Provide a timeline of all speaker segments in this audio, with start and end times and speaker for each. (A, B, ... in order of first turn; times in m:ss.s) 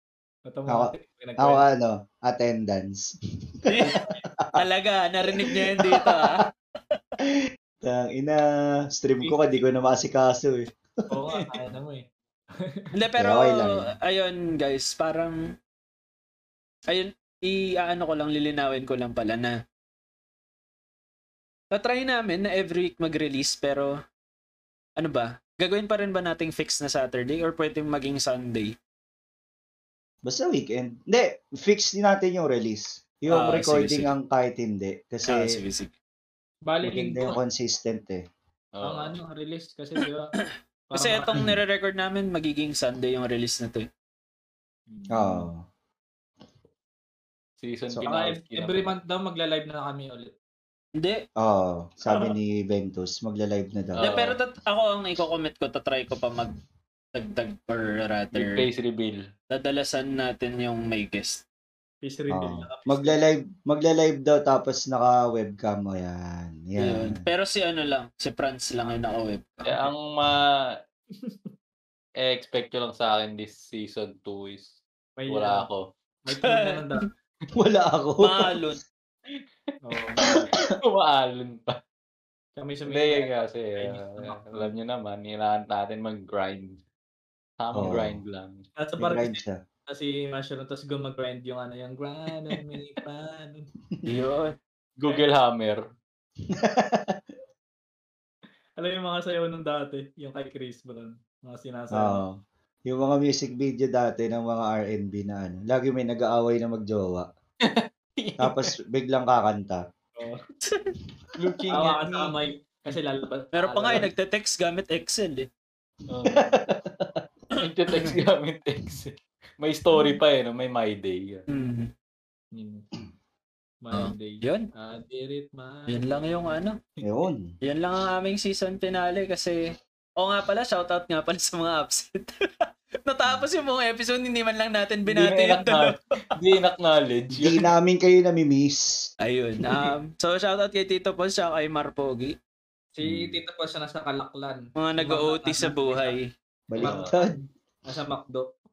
0:00.5-0:01.6 A
0:00.7-0:04.5 B
0:03.6-0:07.2 C
0:05.4-0:06.3 B
0:07.8-0:08.4 B
0:08.9-0:10.7 B
0:09.2-0:09.5 A
0:11.1-0:12.0 A
0:12.6-0:12.9 A
0:12.9-0:15.5 C
0:13.2-0:13.8 B
0:16.9-0:19.6 C
0:21.7-0:24.0 C
0:25.0-0:28.7 C
0:30.2-0:35.5 B
0:33.3-0:34.1 C
0:35.2-0:35.9 C
0:36.6-0:37.4 A
0:36.8-0:38.2 B
0:38.7-0:39.2 D
0:38.8-0:40.3 A
0:40.9-0:41.4 A
0:40.9-0:43.9 C
0:44.9-0:45.5 A
0:45.1-0:45.6 B
0:47.6-0:48.9 D
0:48.1-0:50.3 A
0:51.0-0:51.2 C
0:51.4-0:54.1 B
0:54.0-0:54.4 D
0:54.0-0:56.6 C
0:57.1-0:58.6 C
0:58.3-0:59.2 D
0:59.5-1:01.4 C
1:02.0-1:03.2 A
1:02.3-1:07.2 B
1:06.8-1:09.6 C
1:09.6-1:09.9 A
1:09.6-1:10.4 D
1:11.1-1:11.5 A
1:12.2-1:14.7 D
1:15.2-1:15.7 A
1:15.3-1:15.8 D
1:16.2-1:17.1 A
1:16.4-1:16.9 C
1:17.5-1:18.6 B
1:18.2-1:18.8 C
1:19.8-1:20.5 A
1:20.1-1:21.8 D
1:20.2-1:20.7 B
1:22.6-1:24.7 A
1:22.8-1:26.8 D
1:27.6-1:28.6 D
1:27.7-1:28.2 B
1:28.8-1:29.4 A
1:29.0-1:29.6 B
1:29.9-1:33.7 A
1:34.0-1:34.5 C
1:35.0-1:35.8 D
1:35.0-1:35.3 A
1:36.5-1:37.2 B
1:38.8-1:42.2 A
1:41.9-1:42.3 B
1:42.9-1:47.3 B
1:47.6-1:48.7 D
1:48.4-1:49.8 B
1:50.6-1:50.9 C
1:51.4-1:52.3 D
1:51.7-1:54.1 A
1:53.5-1:55.5 C
1:56.1-1:56.5 D
1:56.3-1:57.2 B
1:57.6-2:01.4 D
1:57.9-1:58.2 C
2:01.5-2:01.9 C
2:02.5-2:02.9 A
2:03.8-2:06.3 A
2:03.9-2:04.7 C
2:05.9-2:06.8 C
2:07.0-2:07.5 B
2:07.6-2:16.0 C
2:15.0-2:17.7 D
2:17.3-2:19.1 B
2:19.2-2:22.3 C
2:23.0-2:26.2 A
2:23.0-2:23.3 B
2:24.8-2:26.3 C
2:26.7-2:27.4 B
2:26.8-2:27.1 D
2:26.8-2:28.5 A